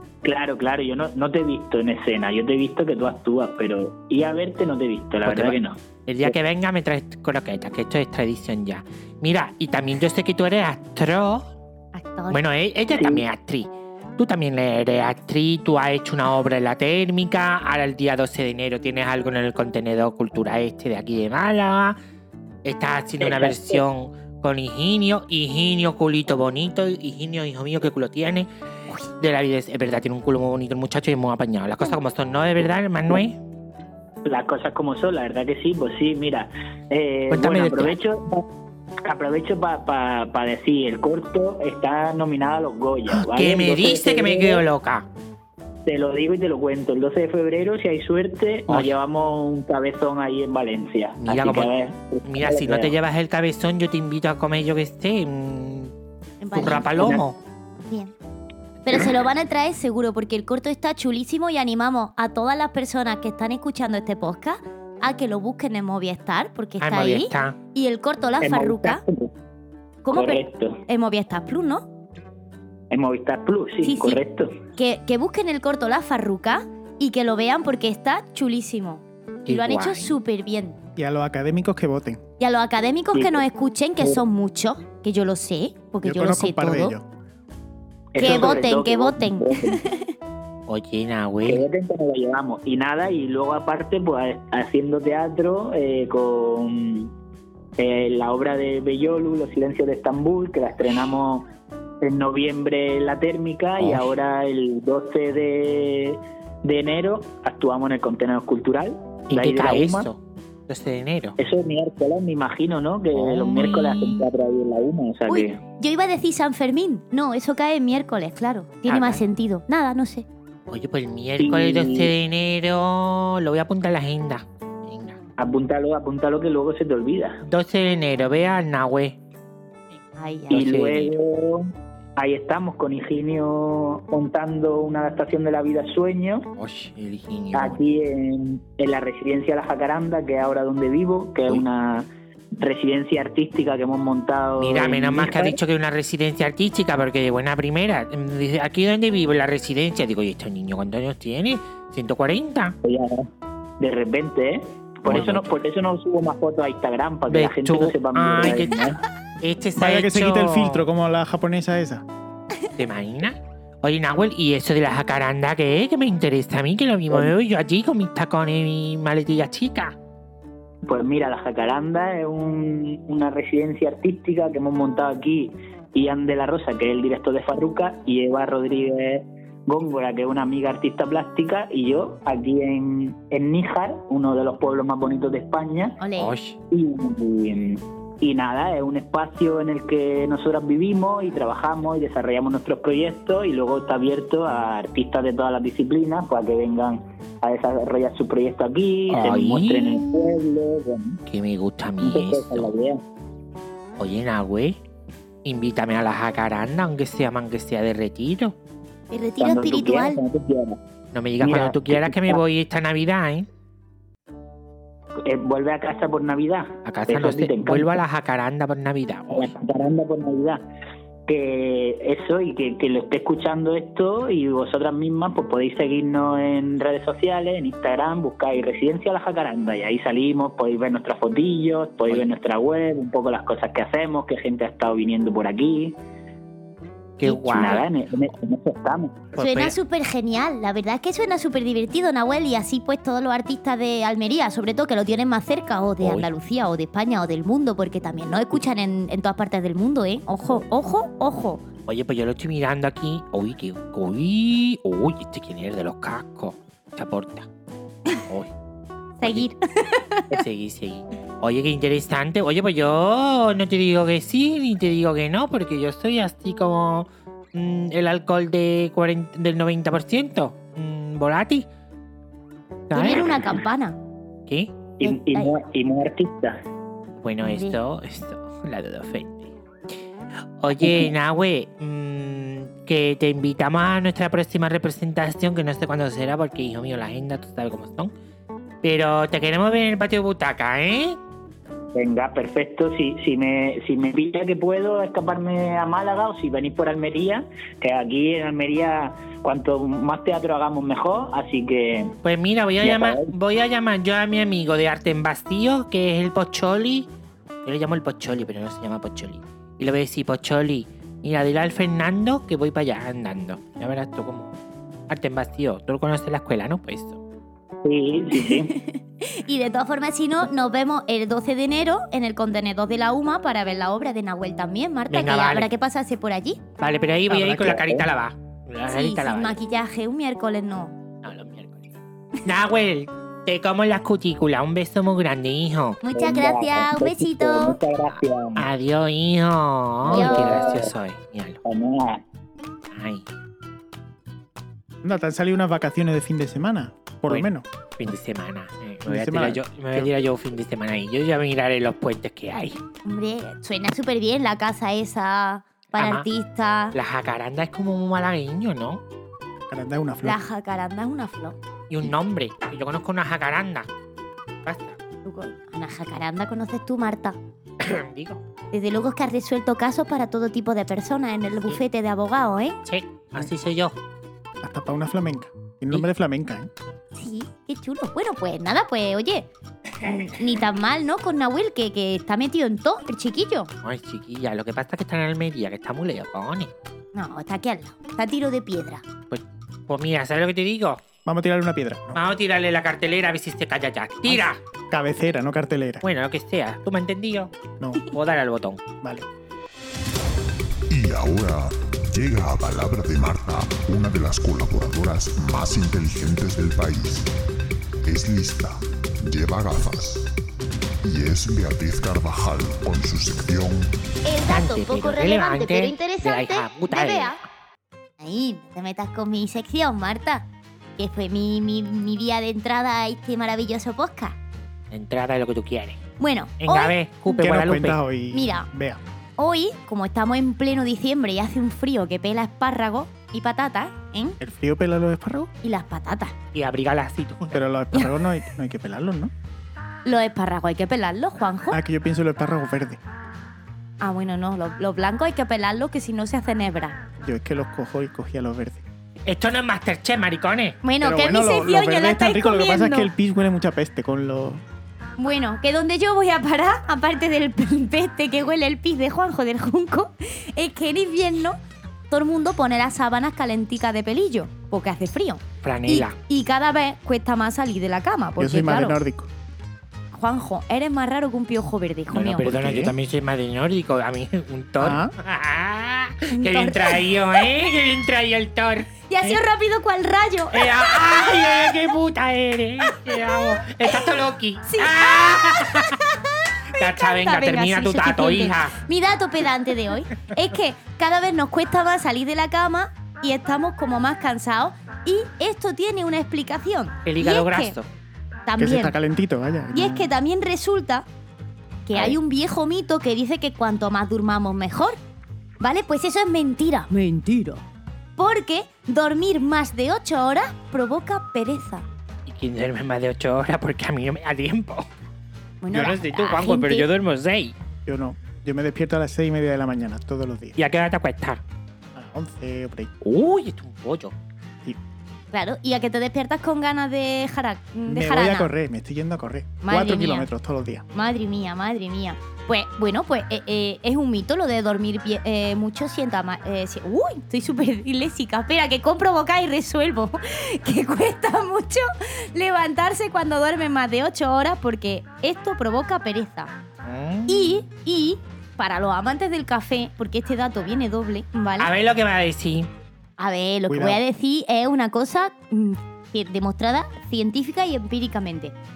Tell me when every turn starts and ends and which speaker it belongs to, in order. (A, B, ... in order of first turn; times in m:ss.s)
0:00.2-0:06.4 A
0:05.2-0:11.4 B
0:11.9-0:12.4 C
0:12.3-0:22.0 B
0:12.9-0:13.2 A
0:22.6-0:28.5 B
0:23.2-0:23.8 A
0:29.2-0:33.4 B
0:34.2-0:38.4 A
0:37.3-0:38.0 B
0:39.0-0:44.6 A
0:43.1-0:45.1 B
0:45.9-0:53.0 A
0:51.2-0:51.7 B
0:52.2-0:55.9 B
0:56.4-0:57.2 C
0:56.5-0:57.4 B
0:56.7-0:57.2 A
0:57.9-0:58.1 C
0:58.9-1:09.0 C
1:06.8-1:07.6 B
1:08.4-1:09.3 A
1:10.0-1:11.9 C
1:10.1-1:10.8 A
1:12.9-1:14.6 A
1:13.8-1:14.2 C
1:14.8-1:20.8 C
1:19.5-1:20.2 B
1:21.0-1:22.2 D
1:22.4-1:27.0 C
1:23.1-1:23.4 A
1:26.0-1:27.1 D
1:28.1-1:29.8 A
1:28.2-1:30.1 C
1:30.7-1:31.6 B
1:31.5-1:37.1 A
1:37.8-1:41.5 A
1:42.0-1:50.1 A
1:43.8-1:44.1 B
1:49.3-1:51.4 B
1:51.4-1:55.6 A
1:53.1-1:54.3 B
1:55.3-2:00.3 C
1:58.9-1:59.2 B
2:00.7-2:05.2 B
2:01.4-2:02.1 A
2:05.4-2:07.4 A
2:07.4-2:09.2 B
2:10.2-2:10.7 C
2:10.5-2:11.2 B
2:10.5-2:16.5 A
2:16.6-2:17.8 B
2:17.5-2:25.6 A
2:24.6-2:32.8 B
2:32.8-2:39.0 A
2:35.1-2:35.5 B
2:37.3-2:40.9 B
2:39.8-2:42.0 D
2:42.8-2:49.9 B
2:50.8-3:06.0 A
3:06.0-3:06.4 C
3:06.2-3:06.6 B
3:06.7-3:21.2 A
3:19.1-3:20.4 B
3:21.3-3:22.7 B
3:22.0-3:23.0 A
3:24.0-3:24.8 B
3:25.4-3:28.5 B
3:29.1-3:30.2 C
3:29.4-3:30.8 A
3:31.1-3:33.5 B
3:31.4-3:32.4 A
3:35.2-3:38.0 A
3:36.8-3:39.5 B
3:39.3-3:40.6 A
3:41.3-3:56.0 A
3:57.2-3:57.9 B
3:57.2-3:59.2 A
3:59.3-3:59.8 B
3:59.4-4:11.6 C
4:06.0-4:06.3 B
4:11.9-4:17.5 B
4:18.2-4:18.5 B
4:19.2-4:20.4 C
4:20.3-4:31.7 B
4:32.9-4:33.5 B
4:32.9-4:34.0 C
4:34.5-4:34.7 B
4:35.0-4:36.6 A
4:35.0-4:35.5 C
4:37.2-4:39.5 B
4:37.4-4:37.8 C
4:40.6-4:48.1 B
4:40.8-4:41.1 A
4:48.8-4:51.2 B
4:52.0-5:02.2 A
5:02.2-5:07.1 B
5:02.8-5:03.3 A
5:07.6-5:14.6 B
5:15.1-5:17.2 B
5:17.8-5:18.7 A
5:18.3-5:26.6 C
5:25.1-5:25.7 B
5:26.8-5:29.6 B
5:27.3-5:28.1 A
5:28.9-5:31.0 C
5:31.2-5:31.9 B
5:32.4-5:36.0 B
5:36.0-5:37.8 C
5:36.1-5:38.7 A
5:38.1-5:41.6 B
5:40.0-5:40.9 A
5:40.1-5:40.7 C
5:41.6-5:42.2 A
5:42.9-5:43.3 B
5:45.0-5:47.7 D
5:48.0-5:52.8 B
5:49.1-5:50.1 D
5:53.0-5:57.0 C
5:56.0-5:56.3 B
5:56.9-5:59.0 B
5:59.7-6:00.4 D
6:00.2-6:01.6 C
6:01.9-6:03.9 B
6:04.6-6:05.0 B
6:05.2-6:07.4 C
6:07.8-6:08.4 B
6:08.7-6:12.8 C
6:12.9-6:14.0 B
6:14.6-6:16.7 D
6:17.1-6:19.5 C
6:20.0-6:23.7 C
6:23.8-6:26.7 B
6:27.1-6:29.0 C
6:29.3-6:31.0 B
6:31.2-6:32.2 D
6:32.2-6:34.6 B
6:34.9-6:36.0 D
6:36.0-6:37.5 B
6:37.8-6:38.1 D
6:38.1-6:38.8 B
6:39.0-6:39.3 D
6:40.9-6:47.3 E
6:48.0-6:50.3 E
6:51.0-6:53.9 E
6:54.2-6:57.4 C
6:54.5-6:57.4 B
6:58.2-7:00.4 C
7:01.0-7:04.4 C
7:04.9-7:06.0 B
7:06.2-7:07.0 C
7:06.6-7:08.0 B
7:07.3-7:09.0 D
7:08.3-7:08.7 C
7:09.4-7:14.4 C
7:14.4-7:15.5 D
7:15.6-7:16.3 C
7:16.5-7:17.6 B
7:17.5-7:19.3 D
7:20.0-7:21.8 C
7:21.7-7:23.0 D
7:24.0-7:27.0 C
7:27.2-7:28.9 D
7:29.3-7:30.8 B
7:30.8-7:33.1 C
7:31.0-7:34.6 D
7:35.2-7:41.6 C
7:42.1-7:49.0 C
7:45.6-7:46.2 B
7:48.4-7:49.3 D
7:50.1-7:52.6 C
7:52.1-7:59.4 B
7:52.5-7:52.9 D
7:54.8-7:55.1 D
7:56.3-7:57.4 C
7:59.1-8:01.7 C
8:00.5-8:06.0 B
8:02.9-8:04.1 C
8:04.7-8:17.8 C
8:06.8-8:08.8 B
8:17.1-8:17.9 B
8:18.5-8:19.0 C
8:18.6-8:20.1 D
8:19.7-8:21.1 C
8:21.9-8:25.0 C
8:25.6-8:27.6 C
8:28.2-8:31.8 C
8:32.3-8:34.9 B
8:35.6-8:36.9 C
8:35.7-8:37.5 B
8:37.9-8:40.6 D
8:40.6-8:41.4 B
8:41.9-8:42.9 D
8:43.0-8:44.2 B
8:45.3-8:48.5 C
8:47.9-8:50.8 D
8:49.6-8:50.3 C
8:50.9-9:06.5 C
9:06.8-9:07.6 B
9:07.3-9:11.7 C
9:11.6-9:12.7 B
9:13.2-9:18.6 C
9:13.7-9:14.0 D